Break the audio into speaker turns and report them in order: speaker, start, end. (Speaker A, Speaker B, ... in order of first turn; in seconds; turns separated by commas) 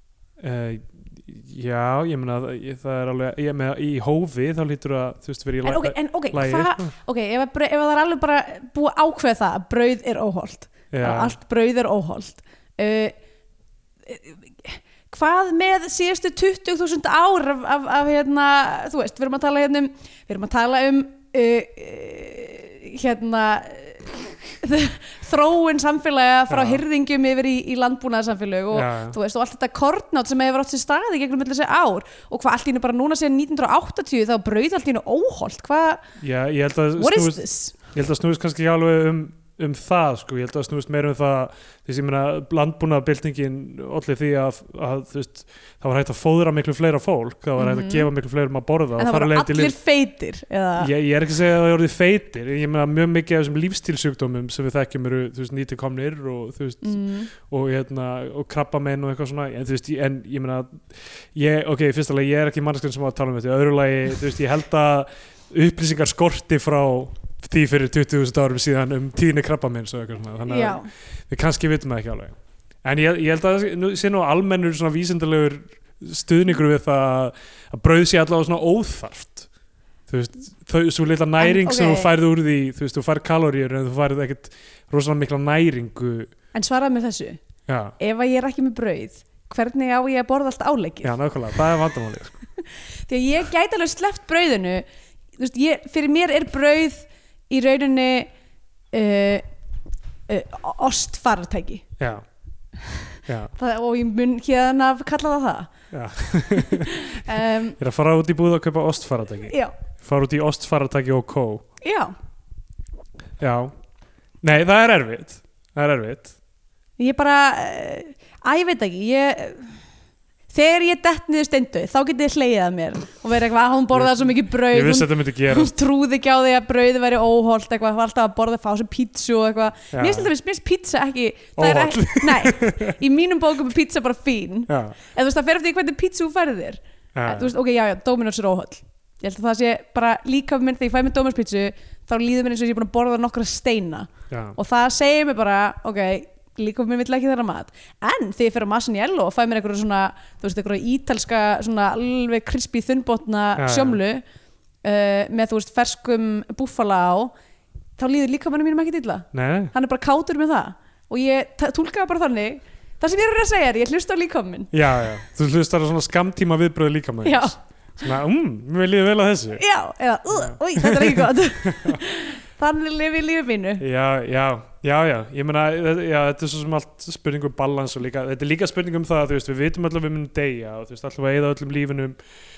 Speaker A: 0.4-6.9, Speaker B: 5.6-13.2, Speaker A: 10.9-11.3, Speaker B: 14.1-36.0, Speaker A: 26.5-26.8, Speaker A: 28.7-29.2, Speaker A: 36.2-49.7, Speaker B: 37.0-37.8, Speaker B: 47.6-48.1, Speaker B: 49.0-50.9, Speaker A: 50.8-79.5, Speaker B: 56.8-57.3, Speaker B: 70.5-70.9, Speaker A: 80.1-86.3, Speaker B: 81.4-82.1, Speaker B: 86.5-87.4, Speaker A: 87.7-88.0, Speaker B: 88.0-91.2, Speaker A: 91.0-92.4, Speaker B: 92.6-94.8, Speaker B: 95.4-98.3, Speaker B: 98.9-99.4, Speaker B: 100.3-101.8, Speaker A: 102.0-102.2, Speaker B: 102.8-105.7, Speaker A: 103.3-103.5, Speaker A: 105.9-111.6, Speaker B: 106.5-107.8, Speaker B: 111.8-112.1, Speaker A: 113.4-113.7, Speaker A: 114.4-116.3, Speaker B: 117.0-119.7, Speaker B: 120.5-154.2, Speaker A: 123.9-125.7, Speaker A: 129.9-130.3, Speaker A: 131.6-132.9, Speaker A: 134.7-134.9, Speaker A: 137.1-137.5, Speaker A: 144.3-144.6, Speaker A: 153.6-154.0, Speaker B: 154.8-157.3, Speaker B: 158.0-164.7, Speaker A: 159.3-159.7, Speaker A: 164.7-169.6, Speaker B: 167.2-167.6, Speaker B: 169.6-173.8, Speaker A: 170.3-172.0, Speaker A: 173.8-182.2